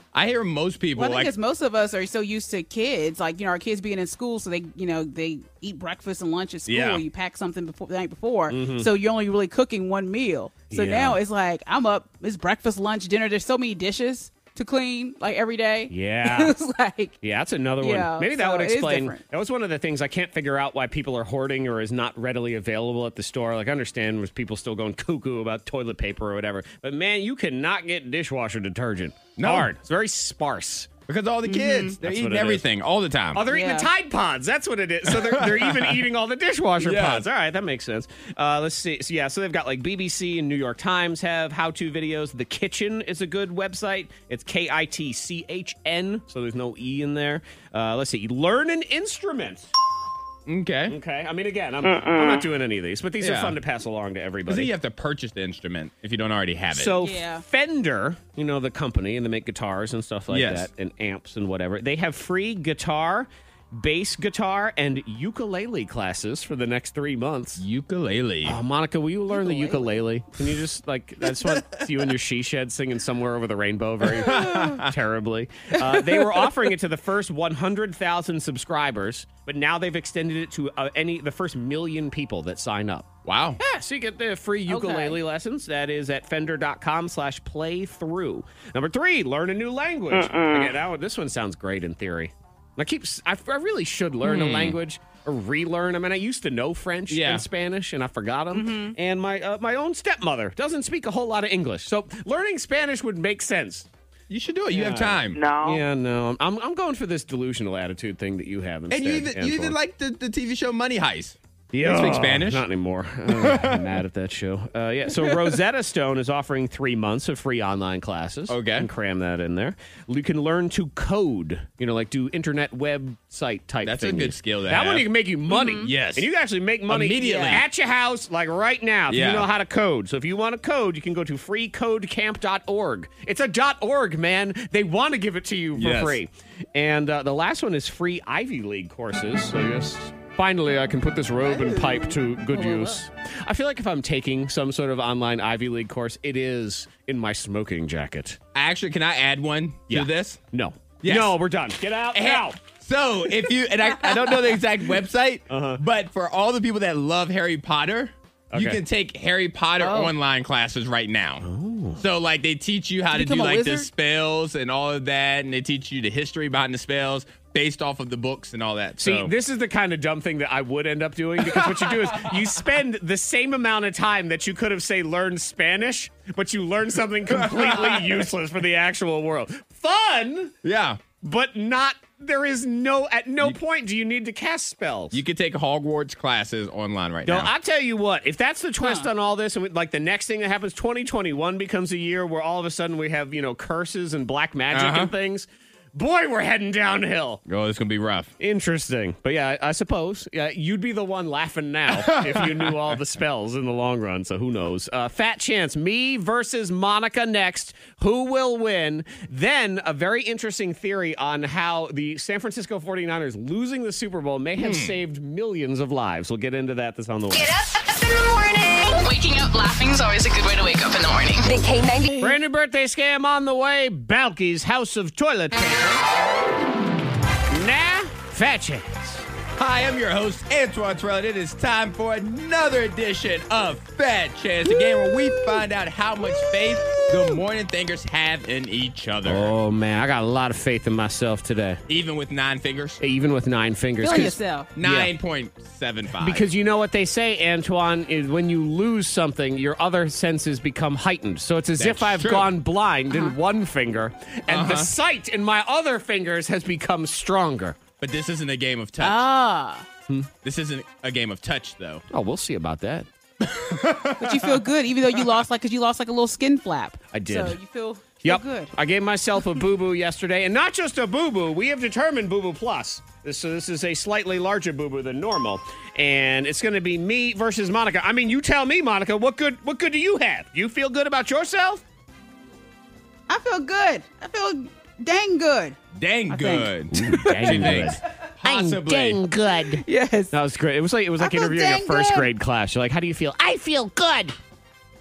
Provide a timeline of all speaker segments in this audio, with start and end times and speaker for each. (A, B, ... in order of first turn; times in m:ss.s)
0:00.1-0:01.3 A
0:01.0-0:17.2 B
0:06.7-0:07.0 A
0:08.5-0:08.9 C
0:10.7-0:11.2 C
0:15.9-0:16.5 C
0:17.2-0:30.9 C
0:17.8-0:19.2 B
0:29.4-0:29.7 A
0:31.1-0:33.4 A
0:31.4-0:32.0 B
0:32.0-0:32.6 C
0:33.3-0:49.7 C
0:33.5-0:33.9 B
0:35.4-0:35.9 A
0:36.8-0:37.3 A
0:50.5-0:51.0 A
0:50.9-0:54.7 C
0:53.2-0:53.6 A
0:54.5-0:57.0 A
0:56.7-1:07.6 C
0:57.0-0:57.4 B
1:00.3-1:00.7 A
1:07.6-1:08.6 A
1:08.4-1:43.9 C
1:09.3-1:10.0 B
1:14.2-1:14.9 A
1:23.3-1:23.6 A
1:24.7-1:25.2 B
1:34.2-1:34.8 A
1:37.1-1:37.4 A
1:38.5-1:39.0 B
1:44.3-1:45.4 A
1:44.7-1:49.8 C
1:48.9-1:52.6 A
1:51.7-2:28.4 C
1:53.3-1:53.9 A
1:58.5-1:58.9 A
2:03.8-2:05.1 A
2:05.5-2:05.9 B
2:05.8-2:06.3 A
2:06.9-2:07.6 A
2:07.2-2:07.6 B
2:09.1-2:09.5 A
2:15.8-2:16.2 A
2:21.4-2:23.0 B
2:28.6-2:30.4 A
2:29.9-2:32.6 C
2:31.0-2:31.4 A
2:32.1-2:41.5 A
2:35.5-2:35.8 C
2:38.5-2:38.8 C
2:39.8-2:40.1 B
2:41.4-2:42.0 C
2:42.0-2:49.3 A
2:43.1-2:43.9 B
2:49.0-3:00.5 C
2:51.4-2:52.3 A
2:57.3-2:58.2 A
3:00.6-3:01.0 A
3:01.2-3:05.2 C
3:05.1-3:07.5 A
3:07.2-3:17.4 C
3:08.8-3:09.1 B
3:14.7-3:15.1 A
3:17.5-3:18.3 A
3:18.4-3:37.5 C
3:21.9-3:22.8 A
3:34.6-3:35.0 A
3:37.5-3:38.8 D
3:39.0-3:41.5 E
3:41.4-3:42.2 D
3:42.2-3:46.0 C
3:47.5-3:49.3 C
3:49.6-3:59.5 A
3:59.2-4:01.8 C
4:01.9-4:03.0 A
4:03.0-4:05.1 C
4:04.0-4:04.7 B
4:04.8-4:06.4 A
4:06.2-4:17.8 C
4:11.8-4:12.5 A
4:13.1-4:13.4 B
4:14.5-4:14.9 A
4:18.0-4:19.3 A
4:19.0-4:19.9 B
4:20.4-4:22.0 A
4:22.1-4:23.1 C
4:23.4-4:24.6 A
4:24.2-4:28.7 B
4:27.1-4:27.6 C
4:28.2-4:41.8 C
4:43.3-4:45.8 B
4:46.0-4:49.2 A
4:46.3-4:47.9 B
4:46.9-4:54.4 C
4:49.8-4:50.3 B
4:51.2-4:52.3 B